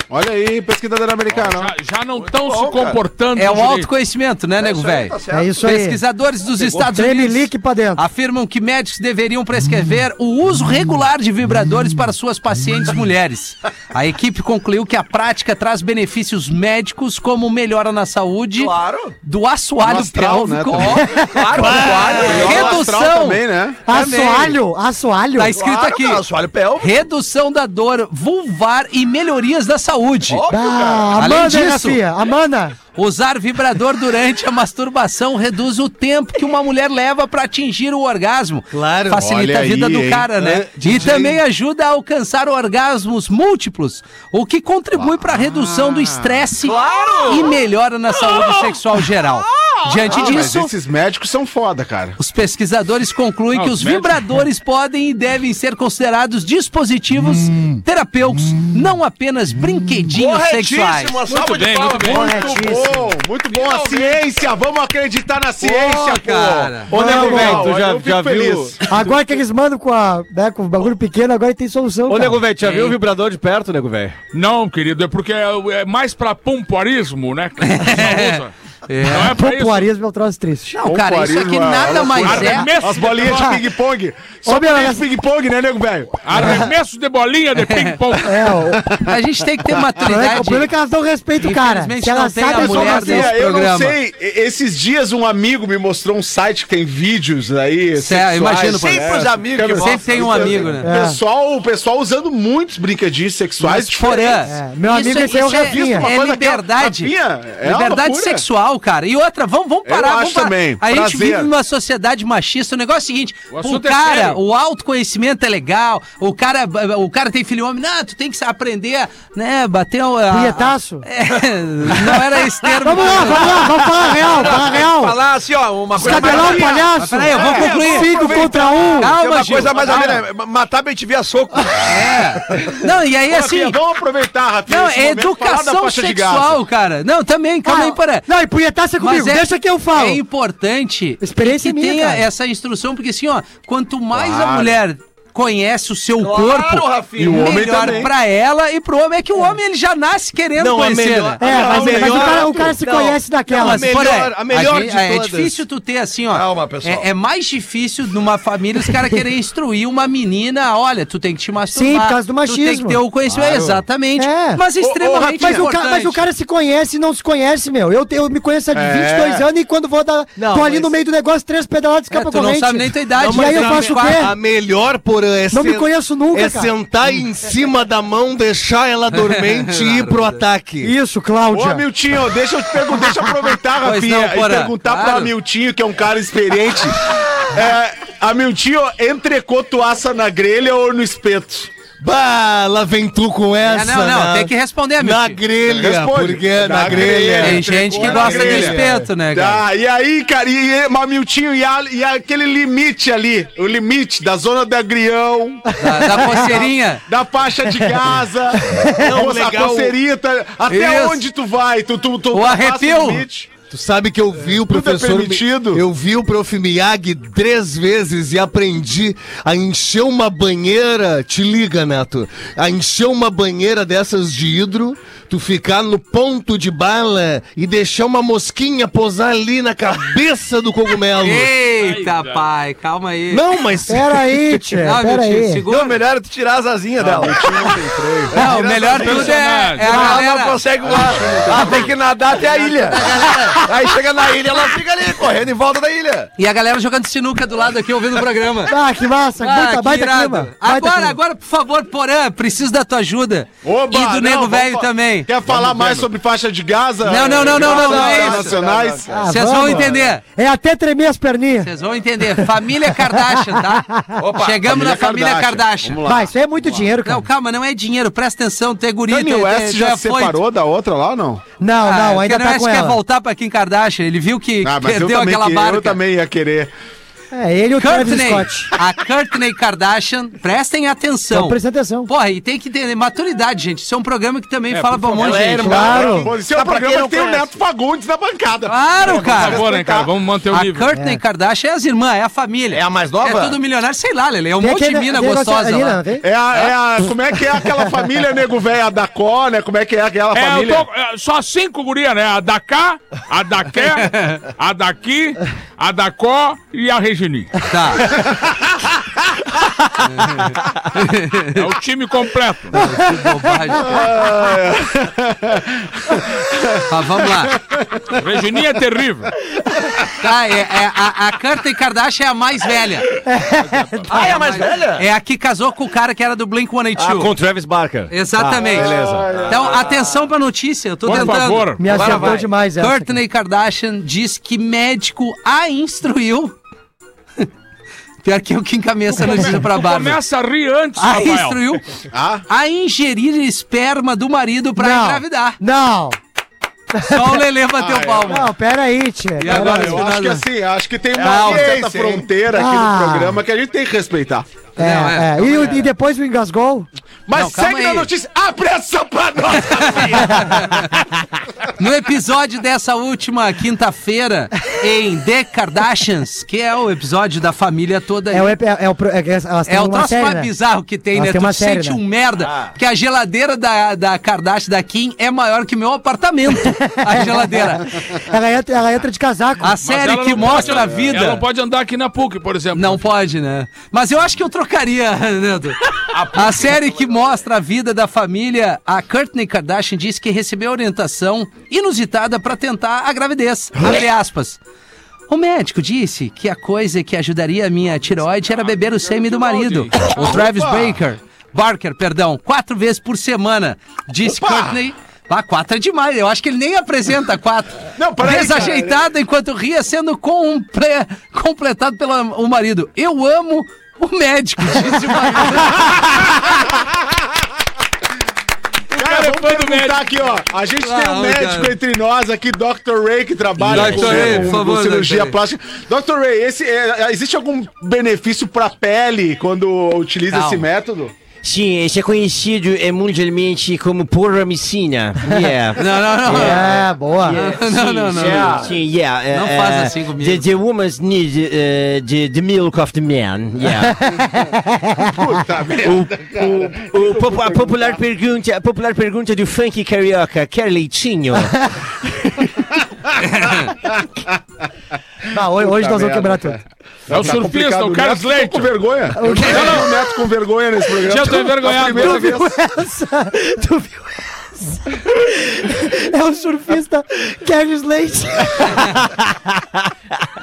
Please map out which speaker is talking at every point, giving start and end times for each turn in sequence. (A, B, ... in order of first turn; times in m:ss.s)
0:00.1-0:01.7 A
0:01.3-0:03.9 B
0:02.2-0:03.0 C
0:03.4-0:24.6 D
0:04.6-0:05.8 C
0:05.3-0:06.0 E
0:06.6-0:06.9 C
0:06.8-0:08.0 E
0:18.6-0:19.1 C
0:19.8-0:21.0 A
0:20.8-0:22.9 C
0:21.0-0:22.2 E
0:21.6-0:22.5 F
0:22.2-0:23.8 A
0:23.9-0:25.6 E
0:25.4-0:26.2 D
0:25.5-0:27.0 C
0:26.8-0:30.4 D
0:30.3-0:31.2 C
0:30.5-0:32.8 E
0:31.2-0:32.0 D
0:33.0-0:50.7 D
0:38.7-0:39.2 F
0:39.1-0:41.4 A
0:45.0-0:46.4 A
0:46.6-0:47.6 C
0:48.3-0:48.6 C
0:49.6-0:50.4 C
0:50.0-0:52.2 A
0:52.2-1:01.2 D
0:53.5-0:54.3 B
1:00.1-1:02.8 C
1:01.3-1:02.3 B
1:02.0-1:09.1 A
1:02.1-1:03.0 E
1:03.5-1:04.3 C
1:05.6-1:06.9 D
1:06.9-1:09.2 G
1:06.9-1:07.7 E
1:08.9-1:12.4 E
1:12.1-1:14.2 G
1:12.6-1:13.0 D
1:14.3-1:19.9 B
1:17.6-1:19.4 D
1:19.3-1:20.8 E
1:20.7-1:22.7 D
1:20.8-1:26.5 A
1:22.2-1:23.5 B
1:23.3-1:23.6 E
1:24.5-1:25.1 E
1:26.2-1:28.6 B
1:26.4-1:26.6 E
1:27.6-1:28.0 D
1:28.2-1:28.8 E
1:29.0-1:30.7 D
1:30.0-1:33.3 E
1:31.4-1:34.0 D
1:32.6-1:44.5 A
1:38.0-1:40.9 D
1:38.6-1:40.8 C
1:40.8-1:41.2 E
1:43.6-2:03.8 D
1:44.5-1:46.1 E
1:45.5-1:48.4 A
1:49.9-1:51.5 A
1:53.5-1:54.4 B
2:00.3-2:01.0 E
2:02.1-2:06.9 C
2:02.8-2:05.2 E
2:05.9-2:09.1 E
2:06.0-2:08.4 D
2:06.0-2:09.0 A
2:09.0-2:10.2 D
2:09.0-2:12.1 C
2:09.8-2:10.2 A
2:11.8-2:13.8 D
2:13.3-2:16.6 A
2:14.7-2:18.3 D
2:17.6-2:20.2 E
2:19.0-2:31.4 D
2:21.2-2:22.3 E
2:24.1-2:24.8 A
2:26.2-2:28.1 C
2:27.2-2:28.1 A
2:30.6-2:35.6 F
2:31.4-2:34.0 E
2:31.4-2:32.7 A
2:33.7-2:46.3 D
2:36.3-2:37.1 C
2:41.7-2:43.0 E
2:43.4-2:43.8 A
2:44.2-2:44.6 E
2:44.8-2:45.7 A
2:45.4-2:54.3 E
2:48.7-2:49.5 A
2:50.4-2:50.9 F
2:52.1-2:54.3 D
2:53.2-3:00.9 F
2:55.5-2:56.7 E
2:59.3-3:00.4 D
3:00.8-3:01.8 E
3:01.5-3:11.7 A
3:03.8-3:05.3 D
3:12.0-3:19.0 F
3:13.6-3:15.4 D
3:15.7-3:33.5 A
3:17.4-3:19.6 D
3:25.8-3:27.0 D
3:25.9-3:26.5 E
3:28.6-3:29.1 E
3:29.0-3:30.0 F
3:30.7-3:31.2 D
3:32.3-3:33.2 D
3:33.7-3:51.5 F
3:34.6-3:35.8 A
3:51.2-3:53.4 D
3:51.8-3:52.4 B
3:53.3-3:54.6 F
3:53.9-3:55.6 E
3:54.8-3:56.0 D
3:55.7-3:57.8 C
3:57.0-3:58.4 A
3:58.3-4:00.6 D
3:58.4-3:59.3 C
3:59.0-3:59.9 B
3:59.9-4:06.3 C
3:59.9-4:00.3 E
4:00.8-4:02.0 A
4:02.8-4:03.6 D
4:06.4-4:08.7 D
4:08.7-4:11.2 E
4:09.4-4:15.3 D
4:13.6-4:19.1 A
4:15.5-4:16.0 C
4:17.0-4:18.6 D
4:17.2-4:19.8 C
4:19.1-4:21.7 E
4:19.3-4:20.2 D
4:21.6-4:23.8 D
4:22.3-4:24.2 E
4:24.2-4:24.6 C
4:24.4-4:26.0 D
4:24.6-4:26.9 A
4:26.1-4:27.3 E
4:27.0-4:30.4 D
4:29.1-4:31.4 A
4:31.6-4:33.0 E
4:31.8-4:36.0 D
4:34.6-4:36.7 A
4:37.3-4:38.7 E
4:37.8-4:46.0 D
4:41.3-4:42.1 E
4:44.7-4:45.2 B
4:45.2-4:47.6 C
4:45.6-4:46.3 E
4:45.7-4:50.1 A
4:48.7-4:49.6 D
4:49.0-4:49.5 C
4:49.0-4:50.9 B
4:50.5-4:56.0 D
4:51.0-4:51.2 E
4:52.7-4:53.6 C
4:54.6-4:56.2 E
4:56.2-5:00.8 A
5:00.3-5:07.5 B
5:07.7-5:08.2 D
5:08.1-5:08.5 A
5:10.0-5:11.6 D
5:11.5-5:12.8 B
5:12.8-5:13.9 D
5:13.0-5:13.3 E
5:13.8-5:18.1 A
5:16.9-5:17.5 D
5:18.1-5:19.3 B
5:20.2-5:23.1 D
5:23.2-5:24.5 E
5:23.5-5:23.9 B
5:24.1-5:25.0 C
5:24.2-5:27.3 D
5:27.0-5:29.4 G
5:28.1-5:28.9 D
5:28.7-5:29.8 A
5:28.8-5:30.0 C
5:29.5-5:36.6 D
5:31.0-5:31.8 B
5:31.1-5:33.2 E
5:31.9-5:32.5 C
5:38.2-5:40.2 D
5:39.2-5:41.6 B
5:41.0-5:41.8 D
5:42.1-5:42.4 A
5:42.5-5:45.6 D
5:44.8-5:46.2 E
5:46.9-5:47.4 E
5:47.1-5:48.5 D
5:47.8-5:48.4 A
5:48.3-5:50.1 E
5:49.4-5:50.4 D
5:49.4-5:54.6 A
5:51.2-5:52.3 C
5:51.2-5:51.7 D
5:52.5-5:53.4 E
5:54.8-5:55.9 D
5:54.8-5:56.9 E
5:57.3-6:01.0 A
5:57.3-5:58.1 D
5:59.6-6:00.8 D
6:01.8-6:08.6 D
6:08.3-6:10.5 E
6:09.7-6:17.8 D
6:11.1-6:12.0 E
6:12.4-6:12.7 C
6:16.6-6:19.7 E
6:19.6-6:21.4 D
6:19.8-6:23.0 B
6:20.4-6:21.2 A
6:22.7-6:34.6 D
6:26.1-6:26.7 B
6:35.3-6:56.5 D
6:38.4-6:40.1 B
6:40.0-6:41.0 A
6:44.4-6:44.7 A
6:48.0-6:49.0 A
6:55.9-6:56.4 A
6:58.9-7:00.1 B
6:58.9-7:11.1 A
7:00.8-7:01.7 D
7:03.6-7:05.4 D
7:10.3-7:10.7 D
7:11.4-7:16.6 H
7:15.8-7:18.6 D
7:16.3-7:17.4 E
7:17.4-7:24.0 H
7:18.1-7:18.7 A
7:19.3-7:20.5 D
7:23.8-7:25.4 E
7:25.2-7:28.0 A
7:25.8-7:31.5 H
7:31.4-7:31.8 E
7:33.2-7:33.7 D
7:35.3-7:36.6 E
7:35.4-7:42.5 A
7:37.1-7:39.9 B
7:39.1-7:40.1 E
7:41.0-7:42.4 B
7:41.9-7:49.2 E